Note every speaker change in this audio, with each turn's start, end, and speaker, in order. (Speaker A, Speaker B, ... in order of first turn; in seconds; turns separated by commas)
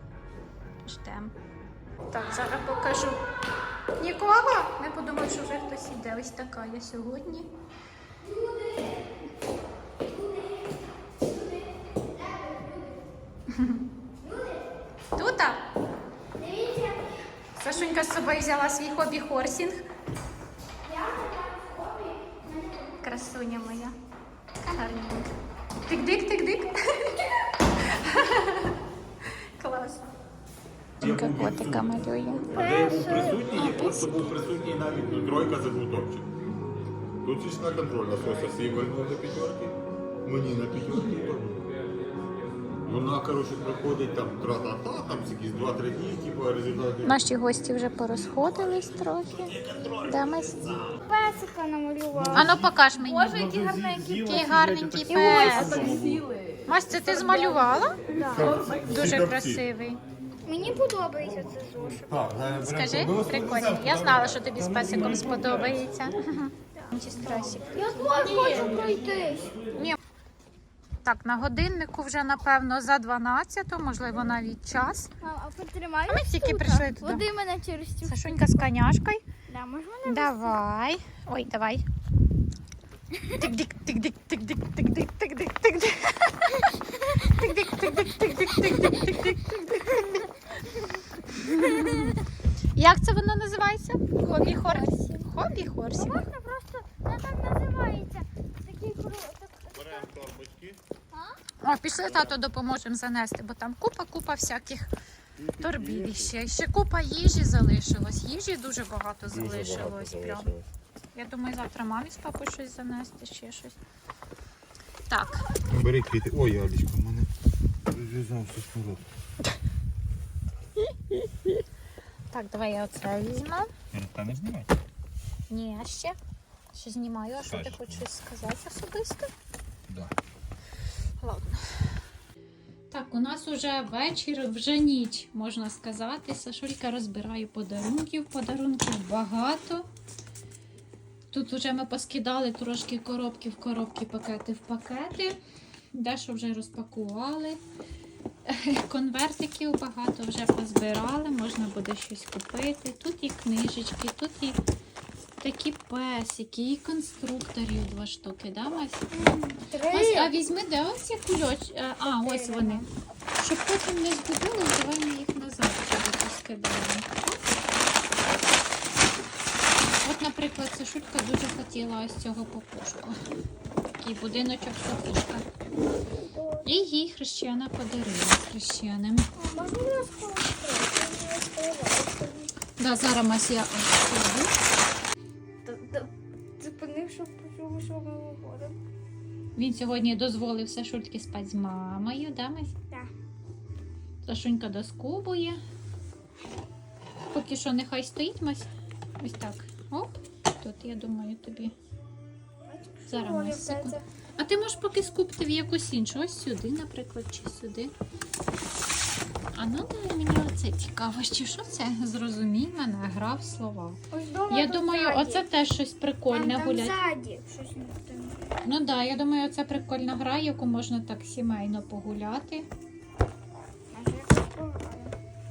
Speaker A: 0.8-1.3, Speaker A: 2.1-3.2, Speaker A: 4.0-7.5, Speaker B: 8.2-9.2, Speaker B: 10.0-13.0, Speaker A: 13.5-13.8, Speaker B: 14.2-14.7, Speaker A: 15.1-15.6, Speaker B: 16.4-17.3, Speaker A: 17.6-19.8, Speaker B: 20.8-23.2, Speaker A: 23.0-24.0, Speaker A: 24.6-25.3, Speaker A: 25.9-27.2, Speaker A: 27.8-28.8, Speaker A: 29.6-30.1, Speaker C: 31.0-31.9, Speaker A: 31.0-32.6, Speaker C: 32.5-36.3, Speaker B: 32.5-33.6, Speaker A: 33.4-34.1, Speaker C: 37.2-41.6, Speaker C: 42.9-47.2, Speaker A: 47.0-50.6, Speaker B: 51.0-52.6, Speaker C: 52.1-52.5, Speaker A: 52.3-56.0, Speaker C: 53.3-56.2, Speaker B: 55.1-56.2, Speaker A: 56.7-58.0, Speaker B: 57.1-58.8, Speaker C: 58.3-59.6, Speaker A: 58.7-60.0, Speaker B: 60.5-62.3, Speaker C: 62.1-65.1, Speaker A: 62.6-68.7, Speaker B: 67.7-69.5, Speaker A: 71.0-75.1, Speaker B: 75.2-78.7, Speaker A: 76.1-77.2, Speaker A: 78.0-79.2, Speaker B: 79.5-80.6, Speaker A: 80.0-81.8, Speaker A: 83.4-90.2, Speaker B: 89.9-90.8, Speaker A: 91.3-92.2, Speaker B: 91.5-92.2, Speaker A: 92.8-96.2, Speaker B: 94.2-100.1, Speaker C: 99.7-100.8, Speaker B: 101.1-101.4, Speaker A: 101.6-104.9, Speaker C: 102.0-102.4, Speaker C: 105.4-106.3, Speaker A: 105.6-110.5, Speaker C: 109.3-110.7, Speaker A: 111.1-113.8, Speaker A: 115.1-115.5, Speaker C: 115.7-117.3, Speaker C: 117.9-119.0, Speaker A: 122.3-123.7, Speaker C: 123.9-124.7, Speaker A: 125.5-126.2, Speaker A: 126.7-129.3, Speaker C: 127.4-128.1, Speaker C: 129.9-130.1, Speaker A: 131.2-132.0, Speaker A: 132.9-139.9, Speaker A: 141.3-145.4, Speaker A: 145.9-147.6, Speaker A: 148.4-154.6, Speaker A: 155.4-159.1, Speaker B: 159.1-160.3, Speaker A: 159.9-162.8, Speaker B: 162.2-162.9, Speaker A: 163.4-167.2, Speaker A: 170.0-173.2, Speaker A: 174.0-175.5, Speaker B: 176.2-176.7, Speaker A: 176.6-179.3, Speaker B: 179.4-182.5, Speaker A: 182.8-184.5, Speaker B: 185.6-188.8, Speaker A: 189.6-192.7, Speaker A: 194.2-195.6, Speaker A: 197.3-201.7, Speaker B: 202.7-204.0, Speaker A: 203.1-207.9, Speaker A: 209.5-214.0, Speaker B: 214.1-215.5, Speaker A: 214.5-217.0, Speaker B: 216.3-218.4, Speaker A: 218.6-222.7, Speaker B: 223.9-225.2